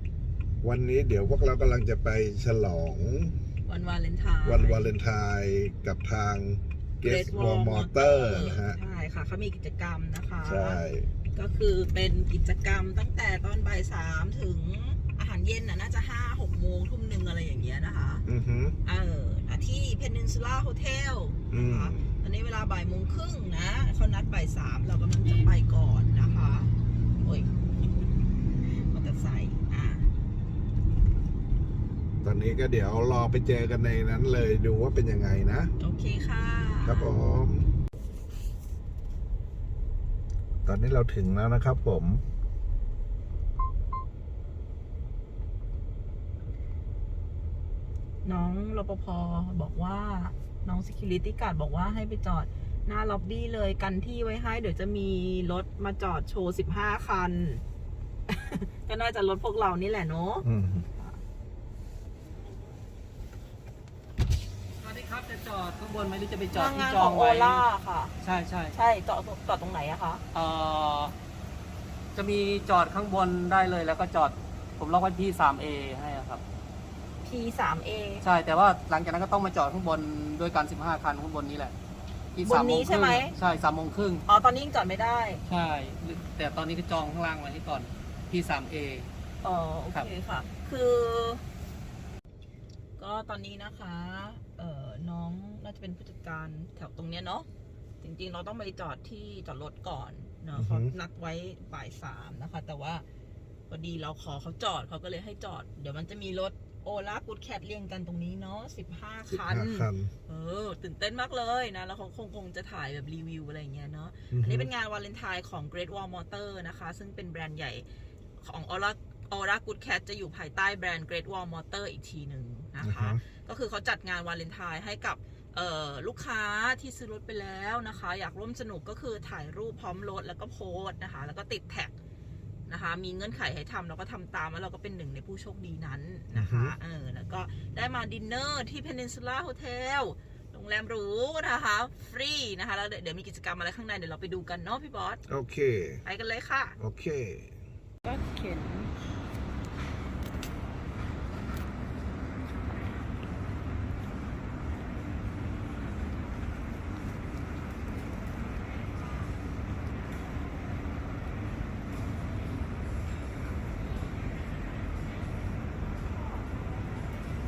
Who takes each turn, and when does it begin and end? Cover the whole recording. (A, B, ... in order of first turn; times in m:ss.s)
0:00.6-0:03.3 A
0:03.6-0:04.9 B
0:04.4-0:08.8 A
0:07.0-0:10.8 B
0:10.4-0:11.1 A
0:11.3-0:18.2 B
0:18.3-0:18.8 A
0:18.8-0:27.5 B
0:21.5-0:22.1 A
0:28.9-0:30.1 B
0:32.2-0:35.7 A
0:35.8-0:37.1 B
0:36.8-0:37.7 A
0:40.6-0:42.2 A
0:48.2-0:57.6 B
0:58.3-1:01.2 B
1:00.4-1:00.8 A
1:04.8-1:07.6 C
1:06.5-1:08.1 B
1:08.2-1:08.7 C
1:08.7-1:10.2 B
1:10.3-1:11.1 C
1:12.1-1:16.4 C
1:17.2-1:18.2 B
1:18.2-1:21.7 C
1:22.3-1:24.2 C
1:22.4-1:23.3 B
1:24.3-1:25.4 B
1:25.5-1:29.1 C
1:29.4-1:31.4 B
1:33.0-1:37.5 B
1:38.0-1:43.0 B
1:40.5-1:40.9 A
1:43.7-1:57.8 B
1:49.3-1:50.1 A
1:54.3-1:54.7 A
1:58.4-2:11.9 B
2:02.8-2:03.2 A
2:12.7-2:25.2 B
2:16.3-2:16.8 A
2:25.3-2:26.0 A
2:26.0-2:26.8 B
2:26.8-2:27.5 A
2:28.0-2:28.9 B